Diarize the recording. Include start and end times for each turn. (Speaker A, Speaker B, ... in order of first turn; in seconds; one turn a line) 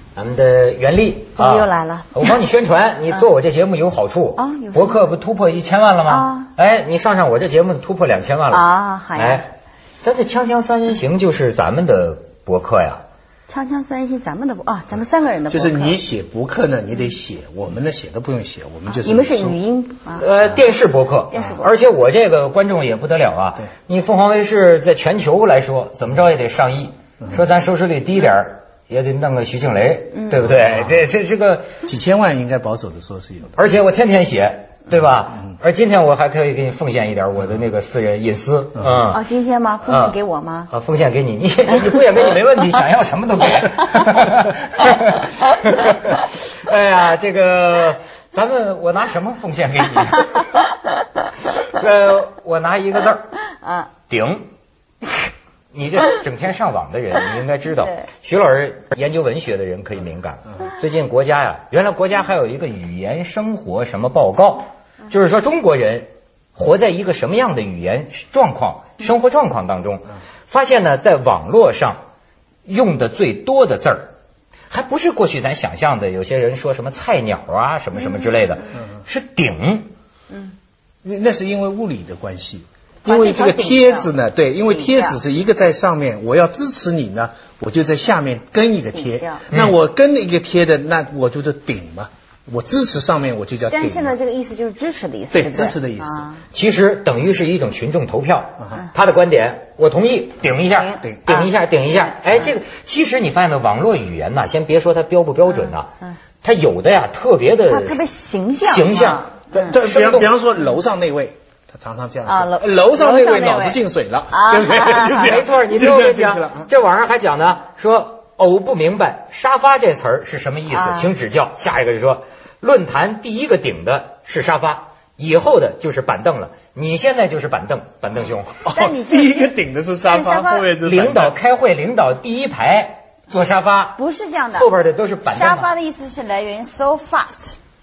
Speaker A: 0.1-9.5
Speaker B: 1.4-2.2
Speaker B: 4.3-5.0
Speaker B: 6.0-6.5
Speaker B: 8.5-9.4
Speaker A: 10.0-13.0
Speaker B: 13.5-16.0
Speaker C: 15.5-19.6
Speaker B: 18.9-20.3
Speaker A: 20.1-31.7
Speaker B: 21.3-21.6
Speaker C: 30.5-31.0
Speaker C: 31.9-33.6
Speaker A: 33.5-39.2
Speaker B: 39.1-40.7
Speaker A: 39.8-40.1
Speaker A: 40.7-50.5
Speaker A: 51.7-53.3
Speaker A: 54.1-54.5
Speaker A: 55.7-72.0
Speaker A: 72.7-74.1
Speaker A: 74.7-79.9
Speaker C: 81.0-94.1
Speaker B: 83.0-84.1
Speaker B: 84.7-85.2
Speaker B: 88.9-89.4
Speaker B: 93.7-96.4
Speaker C: 95.3-96.3
Speaker A: 96.5-105.9
Speaker B: 100.7-101.5
Speaker A: 106.4-108.0
Speaker B: 107.7-109.6
Speaker A: 108.6-110.3
Speaker C: 109.5-116.7
Speaker B: 112.2-113.8
Speaker B: 114.3-115.3
Speaker A: 115.0-128.6
Speaker B: 120.7-121.1
Speaker B: 128.6-129.5
Speaker C: 128.7-131.3
Speaker B: 130.1-130.7
Speaker A: 130.8-134.0
Speaker B: 133.9-134.7
Speaker A: 134.5-135.7
Speaker B: 135.2-137.6